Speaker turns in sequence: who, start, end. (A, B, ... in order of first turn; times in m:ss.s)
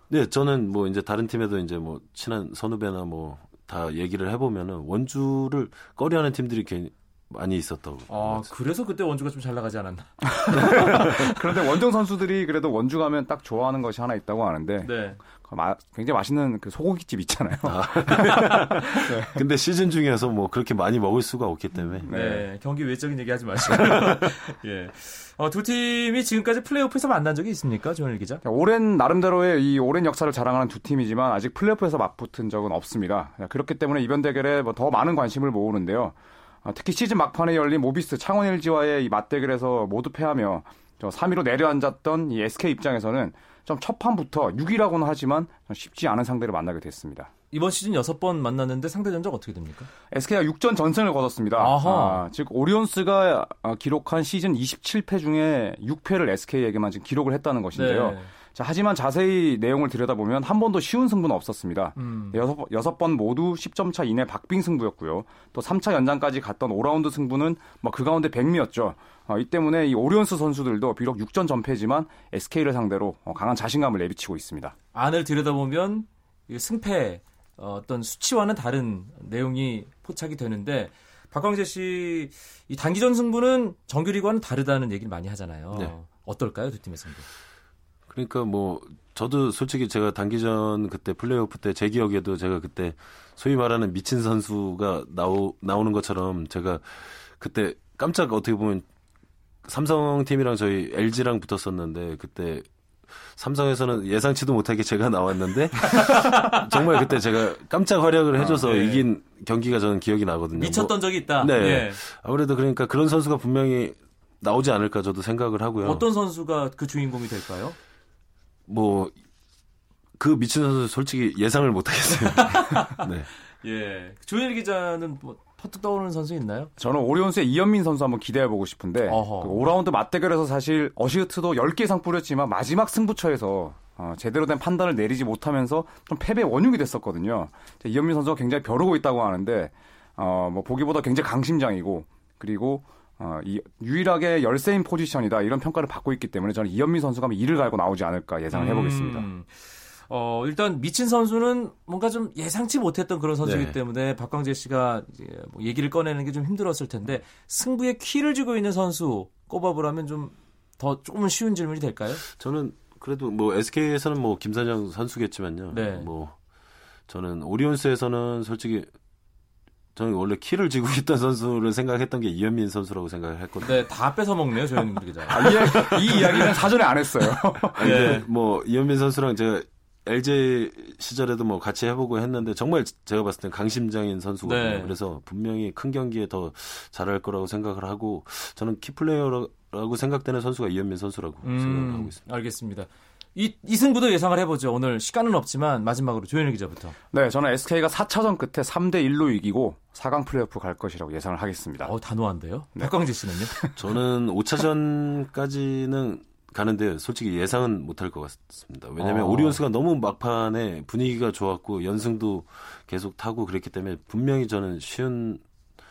0:00.1-0:08.5 A
0:08.1-0:11.6 B
0:10.4-0:19.3 C
0:10.6-0:11.0 A
0:14.8-0:15.2 B
0:17.6-0:22.1 A
0:18.1-0:19.1 B
0:22.0-0:22.4 C
0:22.1-0:28.4 B
0:23.8-0:24.2 A
0:28.4-0:47.3 C
0:47.5-0:49.9 B
0:50.1-1:14.7 C
0:51.6-0:52.2 B
0:57.7-0:58.3 B
1:02.0-1:02.4 B
1:14.9-1:27.2 B
1:28.1-1:38.8 A
1:39.6-1:42.6 A
1:43.3-1:56.0 A
1:45.8-1:47.0 B
1:48.5-1:49.0 B
1:50.6-1:52.0 B
1:55.8-1:57.8 B
1:58.7-1:59.1 A
2:00.2-2:03.3 A
2:02.4-2:03.0 B
2:03.6-2:06.7 B
2:06.8-2:29.3 C
2:09.1-2:09.7 B
2:28.5-2:42.2 B
2:33.4-2:33.8 A
2:42.3-2:46.3 A
2:45.7-2:46.1 B
2:47.1-2:48.9 A
2:49.9-2:53.9 A
2:53.6-2:56.4 B
2:55.3-2:55.8 A
2:55.3-2:58.2 C
2:57.7-3:12.2 A
2:57.8-2:58.2 B
3:04.4-3:05.0 B
3:11.4-3:16.9 B
3:17.1-3:21.9 C
3:21.8-3:23.6 B
3:23.5-3:23.8 C
3:23.8-3:35.4 A
3:29.0-3:29.6 B